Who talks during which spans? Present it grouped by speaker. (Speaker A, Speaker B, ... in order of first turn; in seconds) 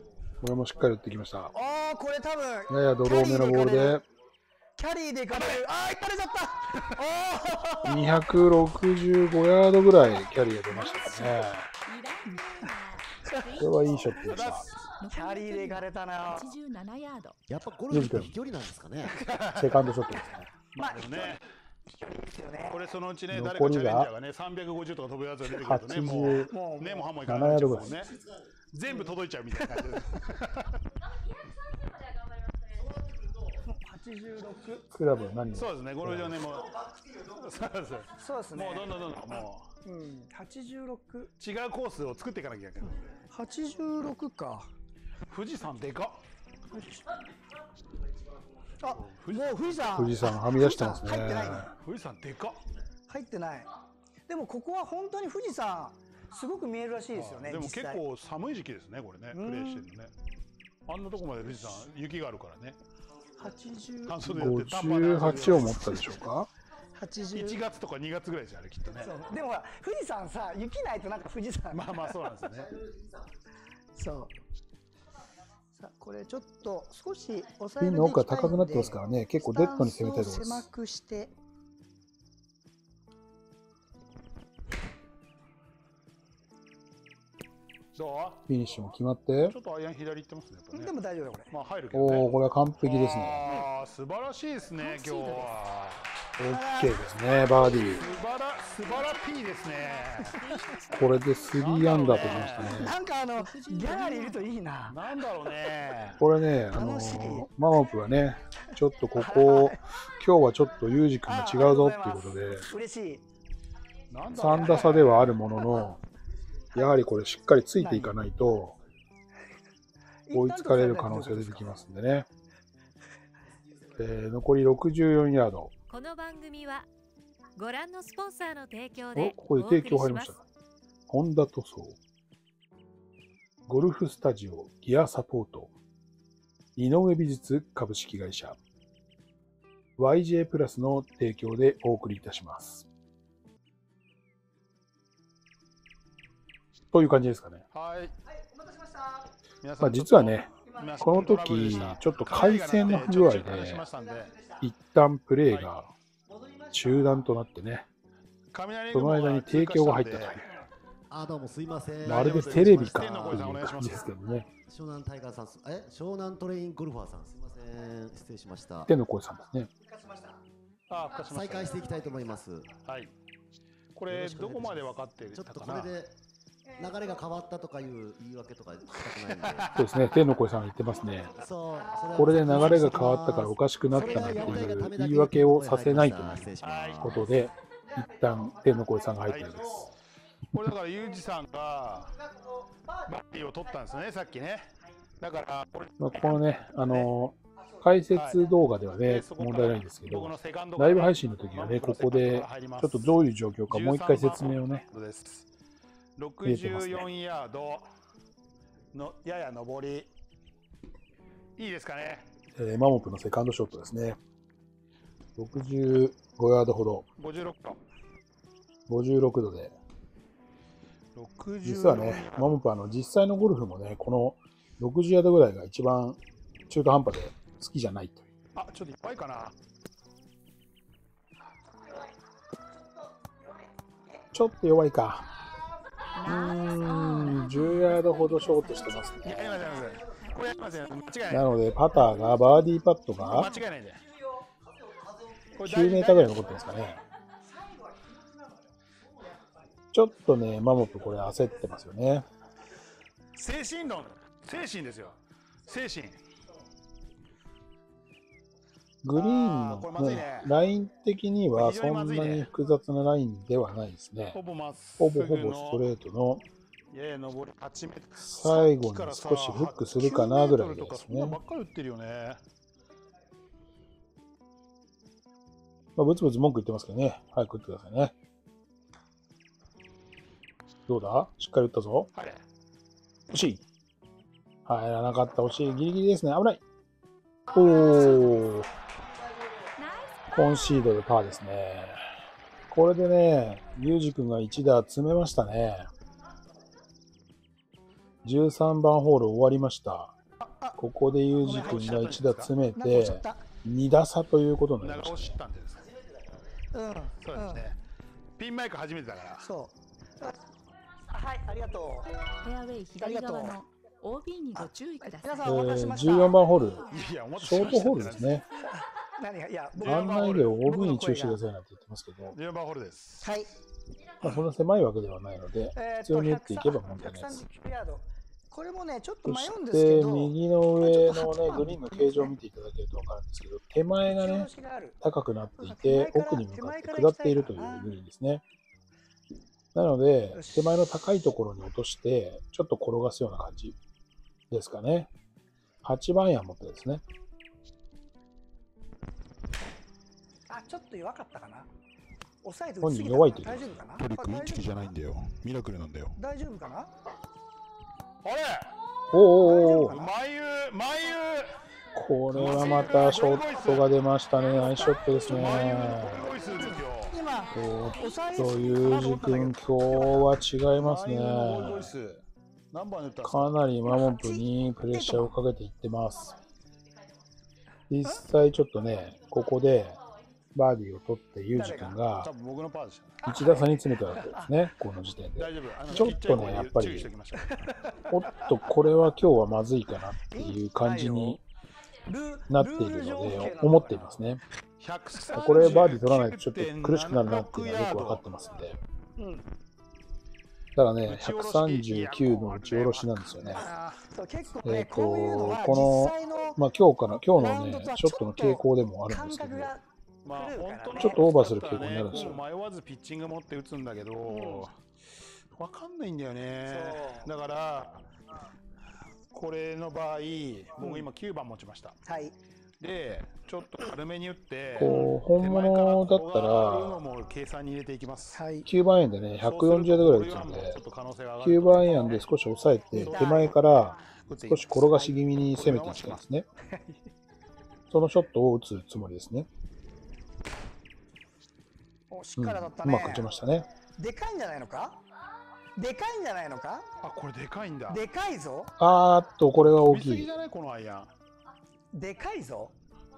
Speaker A: 0.4-1.5, 2.7-4.0, 7.8-11.7, 13.6-14.7, 17.9-18.4, 19.5-20.4, 23.3-24.1, 25.5-26.5, 27.2-28.0, 34.9-36.4, 49.9-51.7, 64.2-66.5, 77.8-80.7, 88.5-89.5, 91.9-93.5, 96.4-98.1, 100.9-102.9, 106.2-112.7, 114.3-116.0, 116.7-118.8, 120.3-122.3, 123.9-125.7, 129.1-130.4, 131.1-132.0, 133.7-135.7, 136.8-138.6, 140.0-142.8, 146.9-147.6, 149.8-153.9, 154.6-155.9, 156.7-157.8, 158.9-160.5, 162.0-164.5, 168.8-169.7, 179.7-181.3, 182.1-189.9, 196.0-204.8, 206.4-207.1, 212.5-214.2, 215.4-217.1, 218.9-219.7, 221.6-228.3, 234.3-235.3, 236.2-239.7, 241.3-243.5, 245.6-247.0, 249.9-252.2, 259.0-264.4, 265.0-266.4, 268.2-271.4, 275.9-278.1, 280.9-282.1, 283.3-283.6, 284.6-286.6, 287.5-288.7, 290.3-292.0, 292.7-295.9, 298.2-300.1, 300.8-305.4, 315.4-318.4, 319.8-322.4, 324.2-327.4, 329.2-334.5, 335.0-338.4, 339.7-343.8, 344.5-345.1, 345.8-347.0, 352.8-353.8, 359.1-360.0, 361.9-366.3, 367.5-371.9, 373.2-376.4, 377.9-380.0, 380.5-382.3, 383.2-387.1, 388.1-391.4, 392.5-394.4, 395.3-398.8, 400.7-403.7, 404.6-409.7, 410.9-412.4, 424.8-427.0, 428.6-430.8, 431.4-436.5, 437.9-439.5, 442.4-443.7, 448.8-450.3
Speaker B: 1.5-4.0, 4.8-8.2, 15.1-16.5, 20.7-21.4, 21.9-22.8, 26.5-27.1, 28.9-29.2, 33.6-34.9, 38.1-38.9, 39.8-41.3, 43.3-44.7, 46.7-47.1, 48.8-51.7, 53.1-53.7, 54.2-58.0, 59.3-59.9, 63.4-64.2, 66.9-67.6, 69.0-72.0, 73.9-74.3, 75.7-81.3, 90.7-91.5, 96.4-97.9, 102.6-105.0, 106.7-107.5, 109.2-109.8, 111.2-113.2, 114.7-115.0, 115.6-115.9, 117.8-118.2, 120.3-121.8, 148.3-149.3, 150.6-151.1, 153.9-154.6, 169.8-170.4, 171.8-172.4, 176.7-177.2, 181.8-182.7, 187.9-188.8, 192.2-193.1, 247.7-248.2, 300.4-300.8, 301.4-302.0, 302.7-303.5, 306.7-307.7, 309.4-310.4, 311.1-312.1, 312.9-313.6, 314.5-316.6, 319.0-321.4, 323.2-323.5, 325.7-332.3, 334.1-335.0, 335.6-337.9, 340.3-340.7, 350.5-351.7, 352.4-354.8, 356.1-356.9, 359.4-360.1, 363.0-363.8, 364.6-366.0, 366.6-370.3, 373.8-375.4, 381.5-382.0, 383.2-384.5, 387.5-388.4, 390.3-391.4, 392.1-394.2, 399.2-399.4, 403.6-406.6, 407.3-411.2, 412.1-412.4, 414.3-414.7, 416.6-417.3, 420.8-421.1, 422.0-422.4, 424.8-425.2, 428.3-428.7, 432.9-433.6, 442.1-443.3, 443.9-445.0, 445.7-446.8, 447.9-448.7, 451.9-452.7
Speaker C: 10.7-14.3, 15.0-17.4, 94.7-95.5, 99.7-104.5, 125.9-126.9, 127.5-130.3, 236.2-241.1, 289.8-290.2, 312.4-315.6, 316.9-317.2
Speaker D: 14.2-14.7, 19.1-19.8, 20.7-21.4, 22.7-28.2, 28.7-30.8, 35.5-39.7, 41.4-43.0, 45.3-46.2, 48.9-50.3, 51.6-52.6, 57.1-60.1, 60.9-62.8, 64.0-66.1, 67.3-69.1, 71.7-72.8, 87.9-88.4, 89.5-90.9, 91.5-96.1, 97.9-100.4, 101.5-102.8, 104.9-106.2, 114.1-115.4, 147.7-148.1, 149.6-154.3, 158.5-160.4, 162.0-164.1, 170.9-171.9, 172.8-173.1, 173.9-176.0, 179.2-180.2, 184.2-184.7, 186.6-187.2, 189.2-189.9, 190.5-192.1, 193.1-194.7, 195.2-197.1, 198.1-205.5, 206.2-207.9, 208.9-210.1, 211.6-212.3, 217.2-217.8, 221.1-222.6, 228.5-229.5, 239.2-242.1, 243.2-244.0, 245.5-246.7, 253.3-256.2, 259.1-260.5, 261.5-262.5, 264.3-265.9, 266.9-272.4, 282.1-282.4, 301.4-302.5, 304.8-305.9, 307.2-307.8, 308.4-309.4, 316.9-318.4, 319.8-320.6, 322.3-323.3, 353.9-356.2, 358.2-358.7, 359.5-361.5, 362.3-363.8, 365.2-367.2, 370.8-373.5, 382.1-383.2, 385.4-387.7, 394.8-398.2, 401.0-404.0, 410.2-414.8, 415.5-418.0, 419.3-421.9, 422.8-428.4, 429.4-432.2, 432.9-433.6, 434.2-434.8, 435.5-436.2, 447.0-448.0, 449.8-451.1
Speaker E: 17.5-19.4, 161.1-163.4, 164.6-168.9, 171.2-172.7, 174.1-176.1, 176.8-179.7, 181.3-187.3